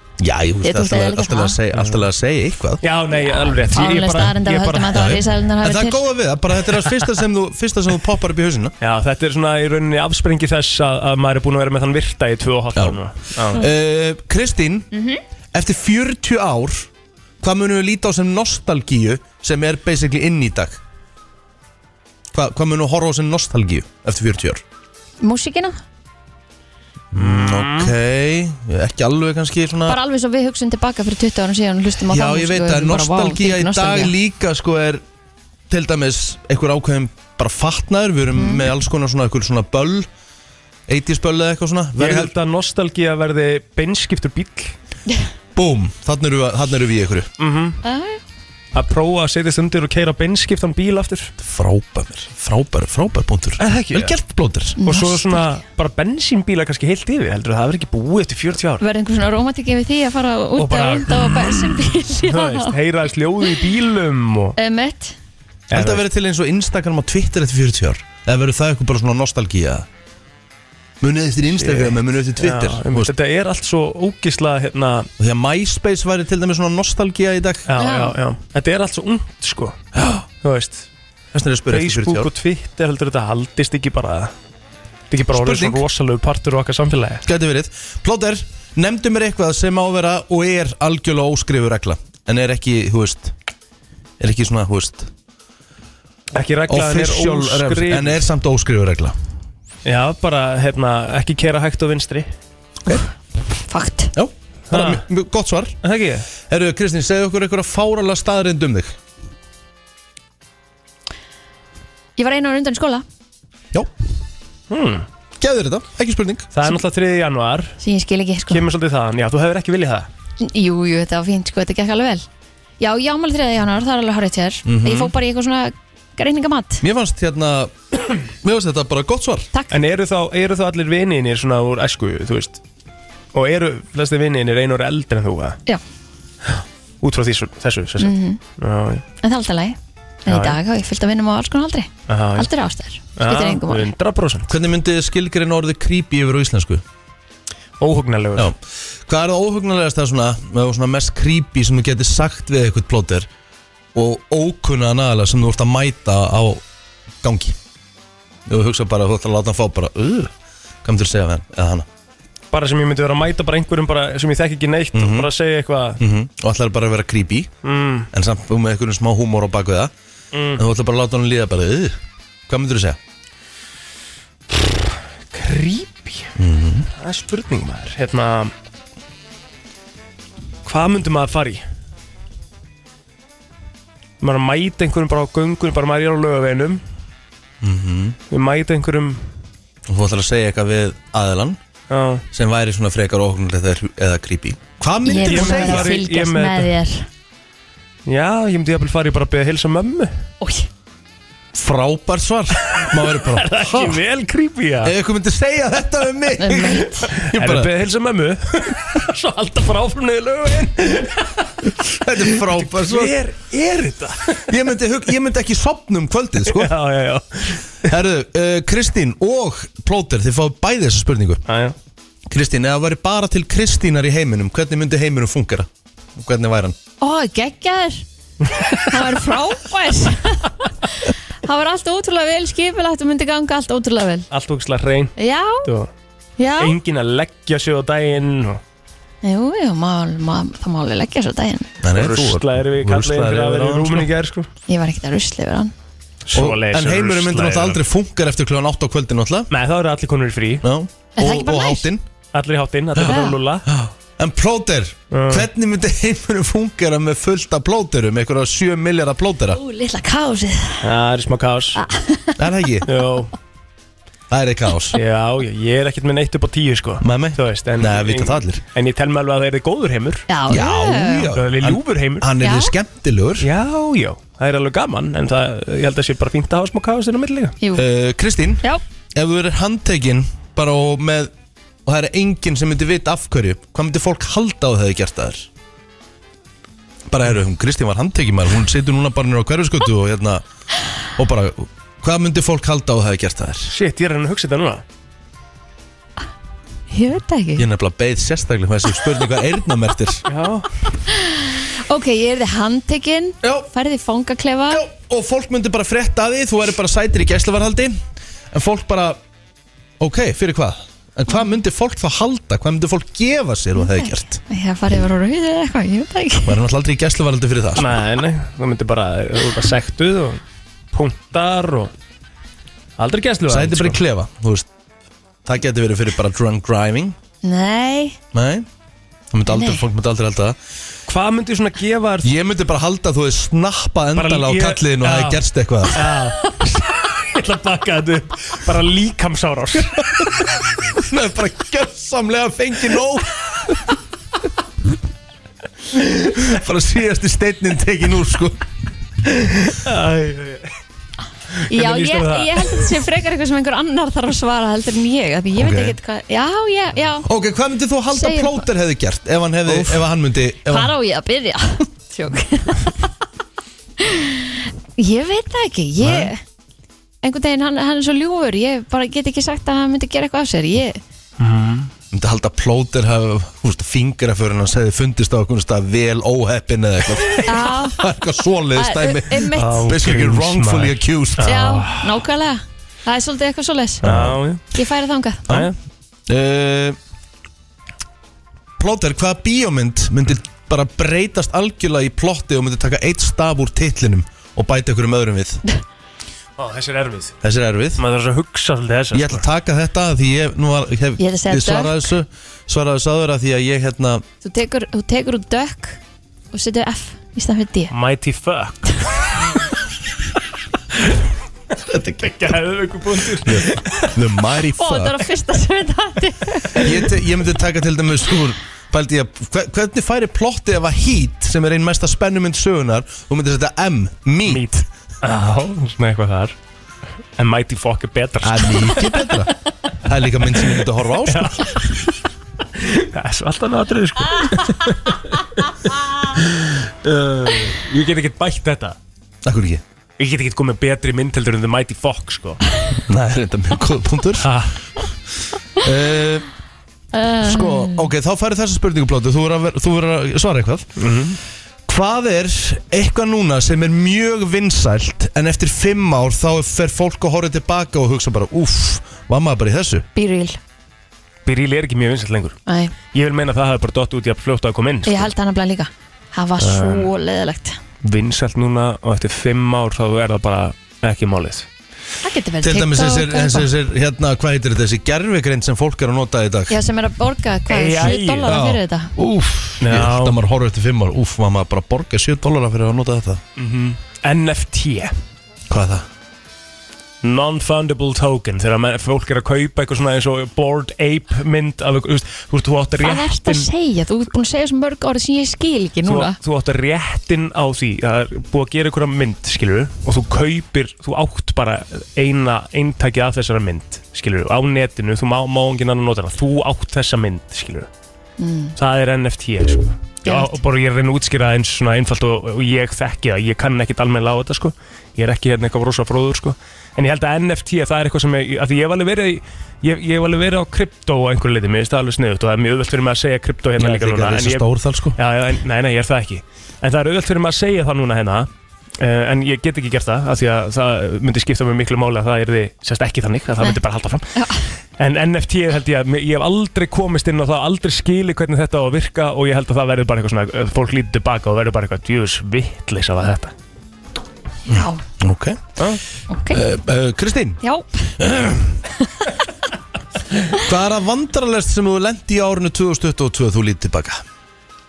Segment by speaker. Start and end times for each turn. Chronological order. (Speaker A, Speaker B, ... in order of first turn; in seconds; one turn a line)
Speaker A: 0.2-2.8
Speaker B: 0.6-1.6
Speaker C: 1.8-2.0
Speaker C: 2.8-5.2
Speaker B: 3.1-6.0
Speaker A: 4.9-8.7
Speaker C: 8.8-13.6
Speaker A: 12.7-14.9
Speaker A: 15.5-16.9
Speaker A: 17.4-20.8
Speaker A: 22.3-24.6
Speaker B: 25.2-25.8
Speaker A: 27.1-30.0
Speaker C: 27.1-27.9
Speaker B: 29.9-34.1
Speaker A: 32.1-35.0
Speaker A: 35.7-40.1
Speaker B: 38.4-38.6
Speaker A: 40.9-42.3
Speaker C: 42.0-44.7
Speaker A: 45.5-47.3
Speaker C: 47.4-47.8
Speaker B: 47.8-48.2
Speaker C: 48.7-51.3
Speaker A: 51.4-54.8
Speaker C: 53.6-54.2
Speaker B: 54.8-55.3
Speaker C: 54.8-58.8
Speaker B: 58.8-62.7
Speaker C: 60.6-64.6
Speaker B: 64.6-65.2
Speaker C: 65.7-66.0
Speaker A: 65.7-69.9
Speaker A: 71.0-73.1
Speaker C: 71.5-75.1
Speaker A: 75.2-77.7
Speaker C: 77.7-79.8
Speaker B: 77.8-78.1
Speaker A: 79.9-80.2
Speaker C: 80.4-80.9
Speaker A: 81.3-82.3
Speaker C: 81.7-84.3
Speaker C: 85.1-87.2
Speaker A: 85.3-85.8
Speaker A: 87.2-93.3
Speaker A: 94.2-95.1
Speaker C: 96.3-98.2
Speaker A: 96.7-99.1
Speaker C: 99.8-102.3
Speaker B: 103.7-104.1
Speaker A: 104.1-105.8
Speaker C: 104.7-105.0
Speaker C: 105.8-106.2
Speaker A: 106.5-108.9
Speaker B: 112.2-113.0
Speaker C: 114.7-115.0
Speaker A: 115.4-116.5
Speaker C: 116.5-117.8
Speaker B: 117.8-118.6
Speaker C: 118.5-120.1
Speaker B: 120.4-122.3
Speaker B: 122.8-126.8
Speaker A: 124.7-125.1
Speaker A: 126.8-127.7
Speaker A: 128.4-129.5
Speaker C: 129.7-132.6
Speaker C: 133.3-135.6
Speaker C: 136.4-139.0
Speaker B: 138.0-138.4
Speaker B: 139.2-143.9
Speaker C: 140.3-140.6
Speaker C: 142.1-142.5
Speaker C: 143.2-144.5
Speaker A: 144.5-146.8
Speaker C: 147.8-148.5
Speaker A: 148.3-153.3
Speaker A: 153.9-156.6
Speaker A: 157.2-157.6
Speaker A: 158.5-160.3
Speaker A: 160.8-161.9
Speaker C: 162.5-166.0
Speaker A: 164.9-165.3
Speaker A: 166.0-167.5
Speaker C: 167.6-168.1
Speaker A: 168.1-169.9
Speaker C: 170.3-170.6
Speaker A: 170.6-173.0
Speaker C: 174.5-176.3
Speaker A: 176.4-176.9
Speaker C: 177.0-178.5
Speaker C: 180.6-181.6
Speaker C: 184.2-186.8
Speaker A: 187.6-188.2
Speaker C: 188.3-189.2
Speaker A: 189.9-191.6
Speaker C: 191.9-192.2
Speaker A: 192.3-196.0
Speaker B: 195.0-197.1
Speaker C: 195.2-196.7
Speaker C: 198.1-200.2
Speaker B: 200.4-200.7
Speaker A: 201.5-204.0
Speaker C: 202.7-204.9
Speaker A: 204.8-207.7
Speaker B: 206.4-207.1
Speaker C: 207.1-214.5
Speaker A: 211.9-213.2
Speaker A: 214.5-216.7
Speaker C: 216.4-217.7
Speaker A: 217.8-221.4
Speaker C: 221.5-221.8
Speaker A: 222.3-226.8
Speaker B: 227.0-228.0
Speaker B: 228.8-234.2
Speaker C: 234.3-235.9
Speaker B: 235.2-235.6
Speaker B: 236.4-236.8
Speaker C: 236.6-238.6
Speaker B: 239.2-241.7
Speaker A: 241.8-244.1
Speaker C: 241.9-244.5
Speaker B: 244.7-245.7
Speaker C: 246.3-247.8
Speaker A: 246.3-249.5
Speaker C: 249.5-250.7
Speaker A: 250.6-252.0
Speaker B: 251.2-251.9
Speaker C: 252.3-253.7
Speaker A: 252.9-259.6
Speaker B: 253.0-253.3
Speaker C: 255.1-255.5
Speaker B: 259.5-260.9
Speaker C: 260.8-261.8
Speaker B: 261.8-262.4
Speaker A: 262.4-262.9
Speaker C: 262.9-263.3
Speaker A: 264.3-265.0
Speaker C: 264.9-270.3
Speaker A: 267.0-268.6
Speaker B: 270.3-271.3
Speaker A: 270.5-273.5
Speaker C: 271.3-272.3
Speaker B: 272.4-272.7
Speaker C: 273.4-277.6
Speaker A: 277.7-281.3
Speaker A: 281.9-285.5
Speaker A: 287.1-290.4
Speaker A: 291.2-293.7
Speaker C: 293.7-294.8
Speaker B: 296.9-297.6
Speaker A: 297.6-300.2
Speaker C: 300.3-300.7
Speaker B: 301.1-304.8
Speaker A: 303.4-303.7
Speaker A: 304.7-307.9
Speaker A: 308.5-309.2
Speaker A: 310.0-314.4
Speaker B: 313.8-316.6
Speaker A: 316.4-318.0
Speaker C: 317.8-320.4
Speaker C: 320.9-321.9
Speaker C: 323.0-324.0
Speaker A: 323.5-324.7
Speaker A: 325.4-327.1
Speaker B: 327.4-328.2
Speaker A: 328.3-328.6
Speaker A: 329.3-330.6
Speaker B: 329.5-329.8
Speaker C: 331.1-332.3
Speaker A: 332.2-336.1
Speaker C: 334.1-340.3
Speaker A: 340.9-343.8
Speaker A: 345.9-348.6
Speaker A: 349.2-349.8
Speaker C: 349.8-350.7
Speaker C: 351.6-352.9
Speaker B: 351.7-357.3
Speaker A: 355.6-355.9
Speaker A: 357.2-360.9
Speaker B: 358.1-358.7
Speaker B: 360.6-363.1
Speaker B: 364.0-366.4
Speaker A: 366.0-366.3
Speaker B: 367.2-371.0
Speaker C: 371.4-371.9
Speaker A: 372.1-381.6
Speaker B: 377.4-378.0
Speaker B: 378.7-379.9
Speaker C: 379.5-382.2
Speaker B: 381.4-384.0
Speaker C: 384.0-384.6
Speaker A: 384.0-384.4
Speaker B: 384.7-385.4
Speaker A: 385.5-385.7
Speaker C: 385.5-385.7
Speaker A: 386.3-387.0
Speaker A: 388.8-395.6
Speaker C: 396.6-397.4
Speaker A: 397.4-398.0
Speaker C: 398.0-399.4
Speaker A: 399.1-404.2
Speaker B: 401.2-402.1
Speaker B: 404.4-406.0
Speaker B: 406.5-407.9
Speaker C: 407.9-409.1
Speaker C: 411.8-414.2
Speaker A: 413.4-415.2
Speaker B: 414.8-417.0
Speaker A: 416.7-424.6
Speaker C: 424.4-426.5
Speaker C: 427.4-429.3
Speaker A: 428.4-431.7
Speaker C: 431.2-432.1
Speaker C: 432.8-439.0
Speaker A: 439.4-439.8
Speaker C: 440.2-442.6
Speaker A: 443.0-444.6
Speaker C: 444.4-444.7
Speaker A: 445.8-446.5
Speaker B: 447.1-448.1
Speaker A: 447.4-451.1
Speaker C: 451.0-451.4
Speaker A: 451.9-460.1
Speaker B: 460.1-460.6
Speaker C: 461.4-462.6
Speaker B: 462.7-462.9
Speaker C: 463.1-465.3
Speaker B: 465.1-467.8
Speaker C: 466.6-467.1
Speaker C: 468.0-471.7
Speaker B: 472.2-473.7
Speaker A: 472.6-476.8
Speaker B: 476.7-479.1
Speaker C: 477.7-478.6
Speaker A: 478.4-483.4
Speaker C: 479.8-480.4
Speaker C: 483.6-485.1
Speaker A: 485.7-486.1
Speaker C: 487.2-493.7
Speaker B: 493.0-496.4
Speaker C: 496.0-507.9
Speaker B: 508.4-508.7
Speaker C: 508.8-528.5
Speaker B: 510.2-510.5
Speaker A: 523.8-525.2
Speaker C: 529.0-534.3
Speaker B: 534.4-534.6
Speaker C: 535.0-543.5
Speaker B: 544.7-545.0
Speaker A: 544.7-545.8
Speaker B: 546.3-546.6
Speaker A: 546.5-547.6
Speaker B: 547.6-548.2
Speaker A: 548.2-548.8
Speaker A: 550.6-554.2